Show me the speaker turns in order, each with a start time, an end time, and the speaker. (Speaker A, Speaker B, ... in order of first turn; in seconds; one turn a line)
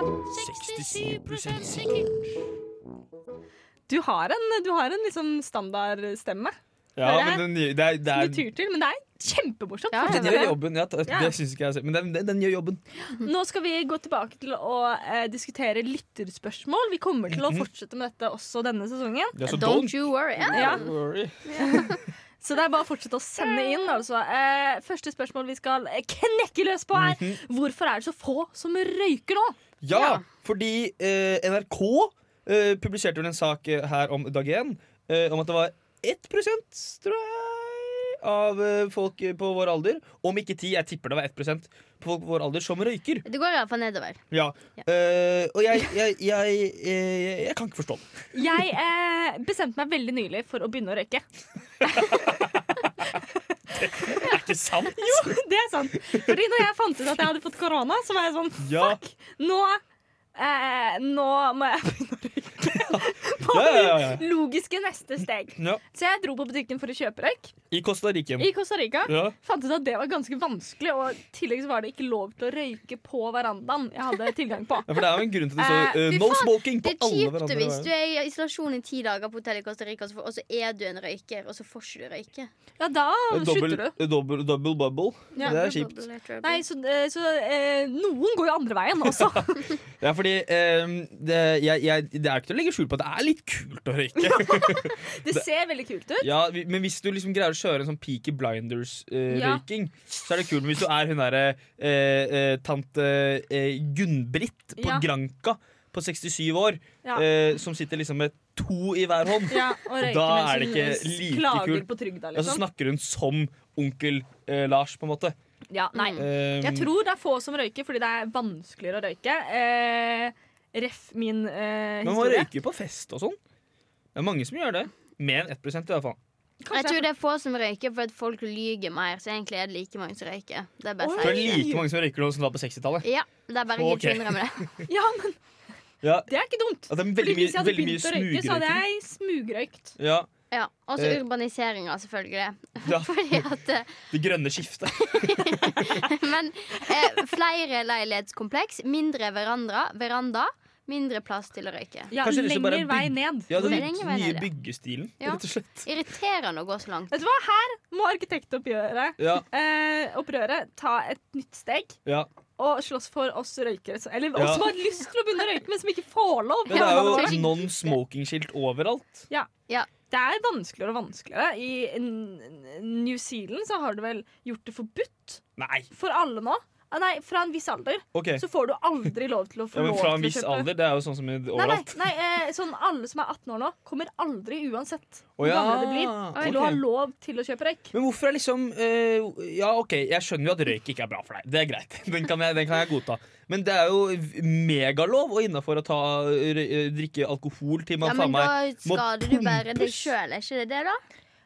Speaker A: 0.3-2.4
Speaker B: 0.3-2.1
Speaker C: 3.9-7.5
Speaker A: 7.0-8.5
Speaker C: 8.1-11.4
Speaker B: 9.9-10.6
Speaker A: 10.1-12.8
Speaker C: 13.2-19.4
Speaker A: 17.3-17.7
Speaker A: 19.4-21.8
Speaker B: 19.5-20.9
Speaker C: 20.5-20.9
Speaker B: 21.5-21.9
Speaker C: 21.6-29.6
Speaker A: 26.9-27.4
Speaker A: 29.8-43.2
Speaker B: 29.9-30.2
Speaker B: 43.2-44.2
Speaker A: 44.3-48.1
Speaker C: 48.3-51.2
Speaker C: 51.9-52.4
Speaker A: 51.9-52.6
Speaker A: 53.7-55.4
Speaker C: 53.9-54.4
Speaker C: 55.0-59.8
Speaker A: 58.6-59.0
Speaker C: 60.4-67.5
Speaker A: 62.7-64.3
Speaker A: 65.6-65.8
Speaker A: 67.7-68.5
Speaker C: 68.4-75.0
Speaker A: 69.1-69.4
Speaker A: 74.9-77.9
Speaker C: 75.6-76.0
Speaker B: 75.9-82.5
Speaker C: 82.8-84.0
Speaker A: 83.3-85.9
Speaker B: 85.3-86.6
Speaker C: 85.3-85.6
Speaker C: 86.4-89.8
Speaker A: 89.0-95.4
Speaker C: 94.2-96.3
Speaker A: 96.2-115.4
Speaker C: 99.3-99.6
Speaker C: 104.8-105.1
Speaker C: 109.5-112.6
Speaker C: 115.7-122.5
Speaker B: 116.0-116.2
Speaker A: 116.2-116.9
Speaker A: 122.0-123.4
Speaker A: 124.2-126.2
Speaker C: 126.6-127.1
Speaker B: 126.7-131.7
Speaker C: 131.0-131.8
Speaker A: 131.2-133.1
Speaker B: 133.0-134.7
Speaker A: 133.8-134.9
Speaker C: 134.9-135.4
Speaker A: 136.0-136.3
Speaker C: 136.3-140.0
Speaker A: 136.9-138.8
Speaker A: 140.0-140.3
Speaker B: 140.5-144.1
Speaker A: 142.8-143.4
Speaker A: 144.1-146.0
Speaker B: 145.0-152.1
Speaker C: 152.1-153.8
Speaker A: 152.2-155.9
Speaker B: 153.5-154.5
Speaker B: 155.2-157.1
Speaker C: 157.1-162.0
Speaker A: 159.2-159.4
Speaker C: 162.6-167.6
Speaker A: 164.3-164.7
Speaker A: 166.7-169.3
Speaker B: 166.7-167.7
Speaker C: 170.1-180.7
Speaker A: 175.6-175.9
Speaker A: 178.1-178.4
Speaker A: 179.7-182.0
Speaker C: 181.5-187.9
Speaker A: 185.4-186.8
Speaker A: 187.9-200.1
Speaker B: 198.0-201.0